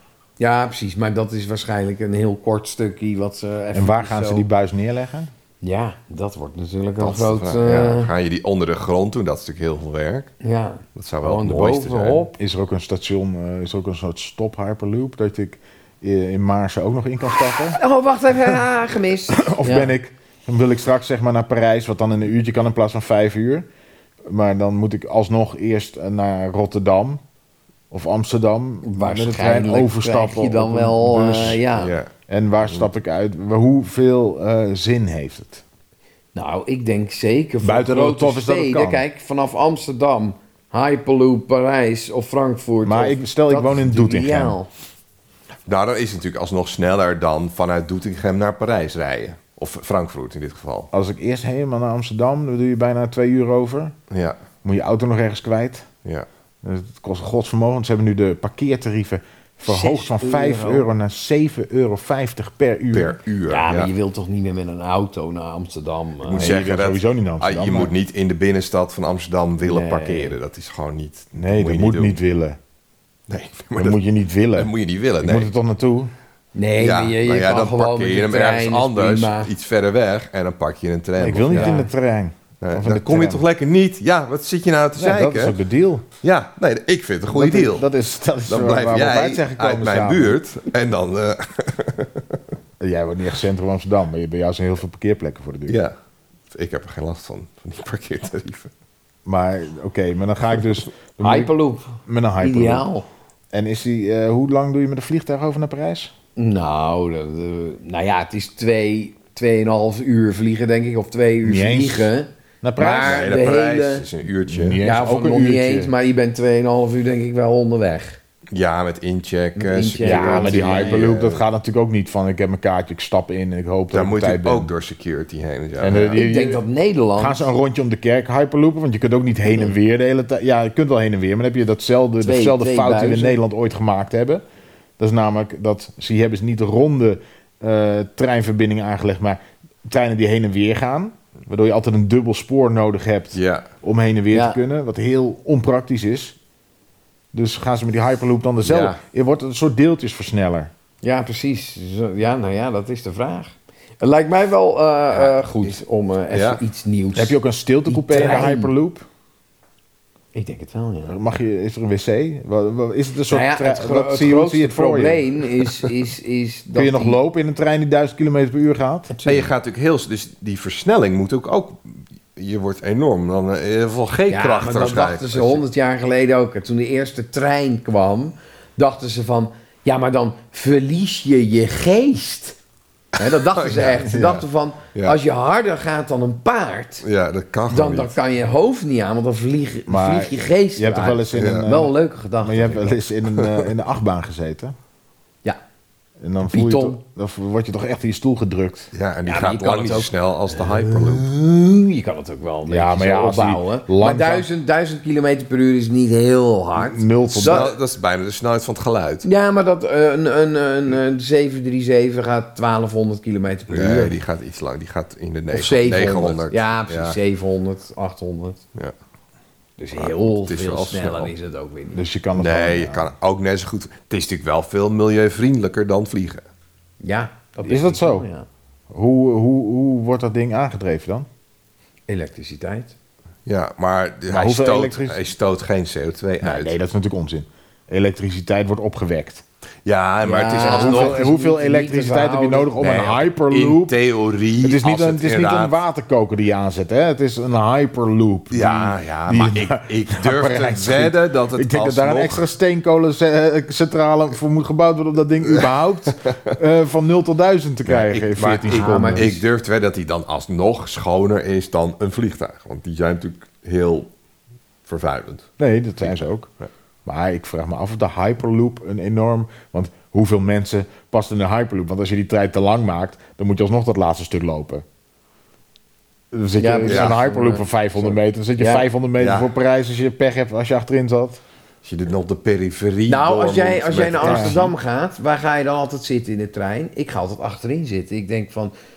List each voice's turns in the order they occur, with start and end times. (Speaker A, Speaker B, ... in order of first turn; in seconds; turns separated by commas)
Speaker A: 0.4-4.5, Speaker B: 3.7-5.3, Speaker A: 5.6-8.1, Speaker C: 7.0-10.3, Speaker A: 10.4-12.3, Speaker C: 11.0-12.3, Speaker B: 12.4-17.8, Speaker A: 17.6-19.9, Speaker B: 19.3-23.7, Speaker B: 24.3-27.2, Speaker B: 27.9-31.6, Speaker A: 28.8-31.9, Speaker C: 31.7-32.1, Speaker B: 32.3-35.6, Speaker A: 36.4-44.7, Speaker B: 37.6-39.0, Speaker B: 42.8-44.6, Speaker C: 45.7-50.9, Speaker B: 50.9-54.0, Speaker C: 54.1-54.4, Speaker B: 54.6-55.9, Speaker B: 56.6-63.2, Speaker A: 59.7-60.9, Speaker C: 62.9-63.9, Speaker A: 63.5-66.5, Speaker C: 66.2-72.2, Speaker B: 66.4-67.9, Speaker A: 69.7-70.3, Speaker B: 71.3-72.6, Speaker C: 73.3-74.0, Speaker B: 73.8-76.1, Speaker C: 74.5-75.5, Speaker A: 76.5-79.5, Speaker C: 76.8-81.8, Speaker B: 81.2-83.4, Speaker A: 81.5-81.9, Speaker C: 82.6-85.6, Speaker B: 85.0-86.0, Speaker C: 86.2-87.9, Speaker B: 87.3-90.4, Speaker C: 88.5-92.4, Speaker B: 92.8-95.8, Speaker C: 95.7-96.0, Speaker C: 96.5-98.7, Speaker B: 99.2-102.9, Speaker A: 101.2-103.1, Speaker B: 103.5-106.1, Speaker A: 106.4-114.1, Speaker B: 111.4-112.1, Speaker B: 112.6-113.4, Speaker C: 113.0-114.8, Speaker B: 114.5-115.9, Speaker A: 114.8-118.2, Speaker C: 118.5-121.4, Speaker A: 119.6-121.1, Speaker B: 120.0-124.7, Speaker C: 123.9-126.2, Speaker B: 125.8-126.6, Speaker A: 126.2-127.5, Speaker B: 127.2-134.4, Speaker A: 132.2-133.4, Speaker B: 135.0-146.4, Speaker C: 143.3-143.7, Speaker A: 144.3-144.6, Speaker B: 147.3-150.7, Speaker C: 148.6-149.0, Speaker A: 151.0-158.7, Speaker C: 155.2-155.8, Speaker C: 156.3-156.6, Speaker B: 157.2-159.1, Speaker A: 160.3-161.2, Speaker B: 161.1-165.3, Speaker A: 163.3-167.2, Speaker B: 166.8-169.1, Speaker A: 169.1-169.5, Speaker C: 169.2-175.6, Speaker A: 174.3-182.6, Speaker A: 183.2-187.1, Speaker C: 183.2-185.2, Speaker C: 187.0-188.2, Speaker A: 187.7-193.0, Speaker B: 189.9-194.8, Speaker C: 191.3-191.7, Speaker C: 193.4-193.7, Speaker B: 196.2-198.9, Speaker A: 196.5-197.0, Speaker C: 198.9-201.3, Speaker A: 199.3-207.7, Speaker B: 202.7-204.5, Speaker B: 206.8-207.7, Speaker C: 207.3-209.3, Speaker A: 209.2-214.2, Speaker C: 213.7-217.2, Speaker A: 215.5-218.6, Speaker A: 219.8-222.0, Speaker C: 219.9-221.3, Speaker B: 221.9-223.1, Speaker C: 222.3-226.4, Speaker A: 227.0-228.5, Speaker B: 227.6-228.3, Speaker B: 228.9-231.3, Speaker A: 232.1-232.9, Speaker C: 233.5-236.8, Speaker B: 234.3-235.2, Speaker B: 236.4-239.4, Speaker C: 239.8-241.2, Speaker A: 240.2-242.9, Speaker B: 240.6-243.9, Speaker C: 242.8-245.8, Speaker B: 244.6-259.3, Speaker C: 248.5-252.4, Speaker C: 257.9-264.1, Speaker A: 258.7-259.4, Speaker C: 264.9-265.5, Speaker B: 265.6-266.5, Speaker C: 266.0-266.7, Speaker B: 267.1-274.9, Speaker B: 276.3-281.4, Speaker A: 276.6-278.9, Speaker C: 276.9-277.2, Speaker C: 279.2-279.5, Speaker C: 281.8-284.7, Speaker A: 283.1-288.7, Speaker B: 284.2-284.6